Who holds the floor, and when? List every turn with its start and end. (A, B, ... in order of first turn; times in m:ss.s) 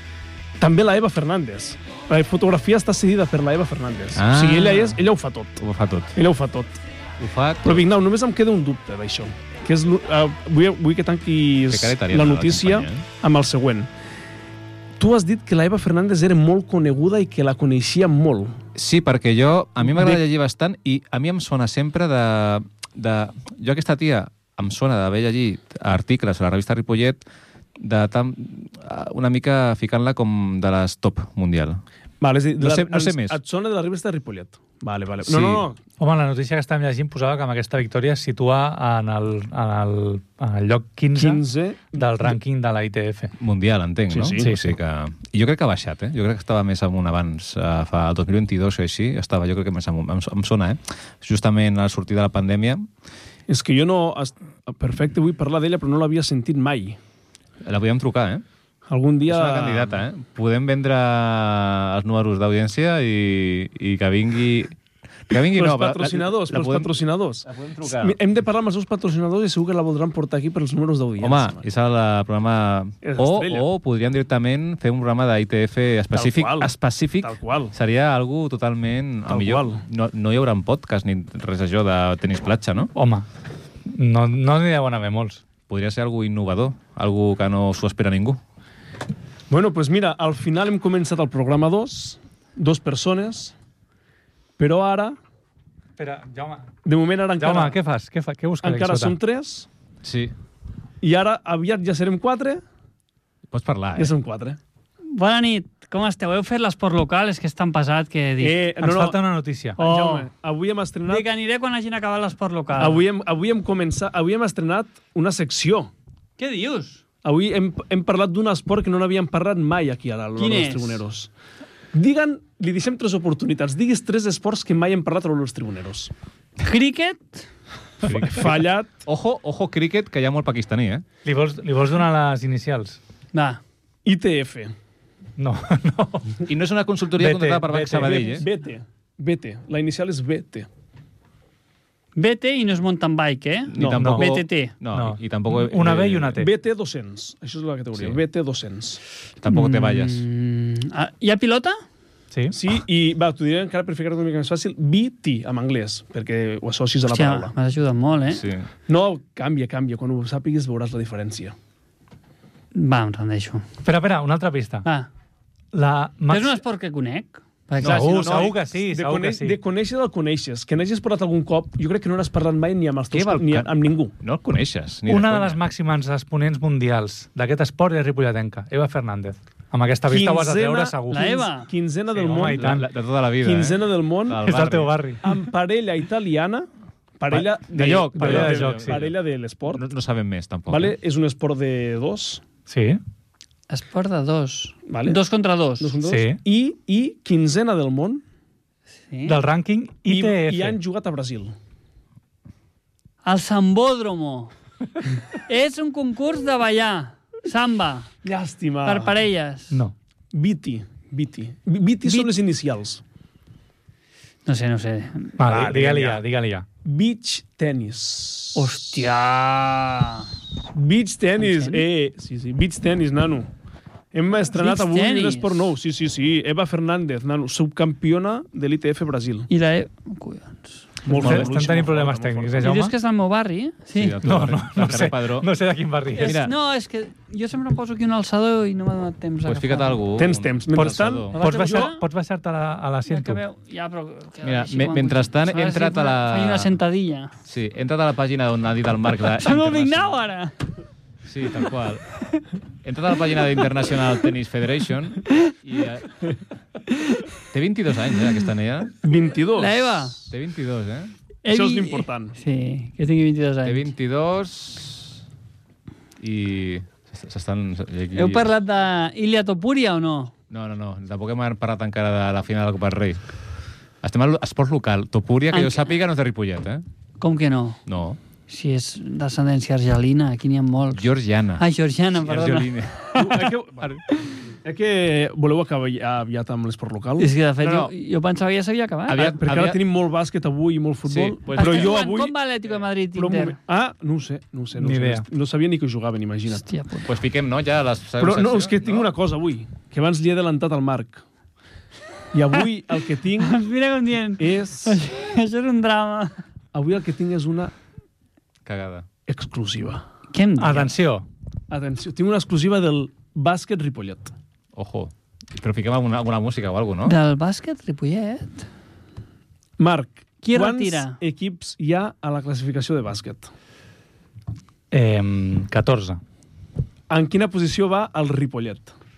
0:00.6-0:06.8 A
0:04.2-0:05.0 B
0:05.6-0:06.2 B
0:07.2-0:07.8 B
0:07.6-0:13.9 A
0:11.7-0:13.0 B
0:15.0-0:18.6 A
0:18.8-0:27.2 B
0:19.9-0:20.2 A
0:27.8-0:31.8 B
0:32.2-0:35.8 A
0:32.6-0:33.4 B
0:35.2-0:35.6 B
0:36.0-0:43.3 C
0:41.2-0:42.4 A
0:43.4-0:52.9 B
0:44.1-0:44.5 A
0:44.4-0:44.8 C
0:53.5-0:57.0 A
0:57.6-0:58.4 B
0:58.9-1:00.0 A
0:59.3-1:04.8 B
1:05.3-1:08.2 B
1:05.3-1:11.7 A
1:11.2-1:22.9 B
1:13.0-1:13.7 A
1:16.1-1:16.7 A
1:17.2-1:17.8 A
1:19.3-1:19.8 A
1:22.9-1:23.3 C
1:23.9-1:25.4 C
1:25.7-1:28.4 B
1:29.5-1:33.5 A
1:34.6-1:35.2 A
1:36.0-1:36.7 C
1:36.8-1:37.8 A
1:37.4-1:39.2 C
1:38.6-1:39.7 A
1:40.0-1:40.3 B
1:41.0-1:42.6 A
1:43.5-1:44.1 B
1:44.0-1:44.6 A
1:45.1-1:48.6 D
1:48.4-1:49.2 A
1:48.8-1:49.8 C
1:49.8-1:50.3 D
1:49.8-1:51.3 A
1:51.1-1:53.0 D
1:52.8-1:55.9 A
1:56.4-1:57.0 D
1:57.2-2:01.3 A
2:00.4-2:01.0 D
2:01.9-2:06.1 A
2:06.6-2:07.5 D
2:08.0-2:11.0 B
2:08.0-2:09.0 A
2:11.2-2:13.0 C
2:13.3-2:13.6 D
2:14.0-2:14.7 A
2:15.4-2:16.4 C
2:16.5-2:18.4 B
2:17.2-2:18.3 C
2:18.1-2:20.7 A
2:22.2-2:24.7 D
2:23.7-2:26.4 B
2:23.8-2:24.1 A
2:24.0-2:24.4 C
2:24.9-2:26.5 C
2:26.4-2:29.0 A
2:29.4-2:30.2 B
2:29.5-2:31.8 D
2:32.5-2:37.5 A
2:37.1-2:38.4 D
2:38.3-2:38.7 B
2:38.9-2:41.6 A
2:42.7-2:43.6 D
2:43.8-2:44.9 C
2:44.8-2:45.1 D
2:45.7-2:46.6 C
2:46.3-2:48.5 D
2:47.8-2:49.6 C
2:47.8-2:48.6 B
2:48.7-2:54.1 A
2:53.1-2:55.6 B
2:55.1-3:01.5 C
3:00.1-3:02.8 A
3:01.1-3:01.7 D
3:02.2-3:02.9 C
3:02.4-3:04.9 B
3:03.4-3:04.4 A
3:04.4-3:05.3 C
3:05.2-3:06.7 A
3:07.2-3:09.8 A
3:07.3-3:09.1 B
3:08.2-3:09.0 C
3:09.7-3:11.0 B
3:10.7-3:12.4 A
3:12.7-3:13.0 C
3:13.7-3:15.9 D
3:14.9-3:15.2 A
3:15.8-3:18.2 A
3:16.0-3:16.4 C
3:19.1-3:19.4 D
3:19.3-3:20.8 C
3:20.1-3:21.5 A
3:23.2-3:24.5 D
3:25.0-3:28.1 D
3:28.2-3:29.2 A
3:28.9-3:29.8 D
3:30.3-3:33.0 A
3:32.0-3:32.4 D
3:34.4-3:35.4 D
3:35.4-3:36.7 C
3:35.4-3:36.2 A
3:36.8-3:39.0 A
3:38.6-3:40.3 D
3:40.7-3:43.5 A
3:41.4-3:41.8 D
3:44.1-3:49.5 A
3:44.5-3:45.7 D
3:49.5-3:51.4 D
3:51.0-3:52.8 A
3:51.1-3:53.0 C
3:52.6-3:54.2 D
3:53.9-3:55.5 B
3:54.2-3:56.4 C
3:56.1-4:00.0 D
3:56.2-3:56.6 B
3:59.4-4:01.4 B
4:00.2-4:02.0 A
4:00.8-4:03.4 C
4:01.4-4:02.0 D
4:03.1-4:07.3 D
4:04.4-4:06.7 B
4:07.5-4:10.2 B
4:09.2-4:10.6 D
4:11.3-4:12.1 B
4:12.8-4:16.4 B
4:17.0-4:17.2 D
4:17.5-4:19.0 B
4:19.0-4:20.3 A
4:19.6-4:20.2 D
4:20.3-4:21.1 B
4:21.4-4:23.9 D
4:21.5-4:22.4 A
4:23.6-4:25.2 B
4:26.2-4:28.5 B
4:28.2-4:30.3 D
4:30.5-4:33.2 B
4:34.0-4:36.8 B
4:35.5-4:35.9 D
4:37.2-4:37.8 D
4:37.9-4:38.2 B
4:38.5-4:43.5 D
4:40.9-4:43.1 B
4:43.1-4:44.0 A
4:44.6-4:47.3 A
4:47.2-4:49.4 D
4:47.6-4:47.9 B
4:49.1-4:49.8 B
4:49.2-4:52.4 A
4:51.1-4:52.0 B
4:51.5-4:53.6 D
4:53.1-4:56.6 A
4:54.8-4:55.3 C
4:56.6-4:57.1 D
4:57.0-4:59.1 B
4:58.2-5:01.2 A
5:02.3-5:03.6 A
5:03.4-5:06.4 D
5:04.4-5:05.0 A
5:06.7-5:07.7 A
5:08.7-5:09.0 B
5:09.3-5:10.0 A
5:10.3-5:10.9 D
5:10.6-5:11.3 C
5:11.7-5:14.3 A
5:14.8-5:17.2 B
5:17.1-5:18.7 D
5:19.8-5:23.5 A
5:20.4-5:21.2 D
5:24.9-5:26.2 C
5:27.1-5:29.0 A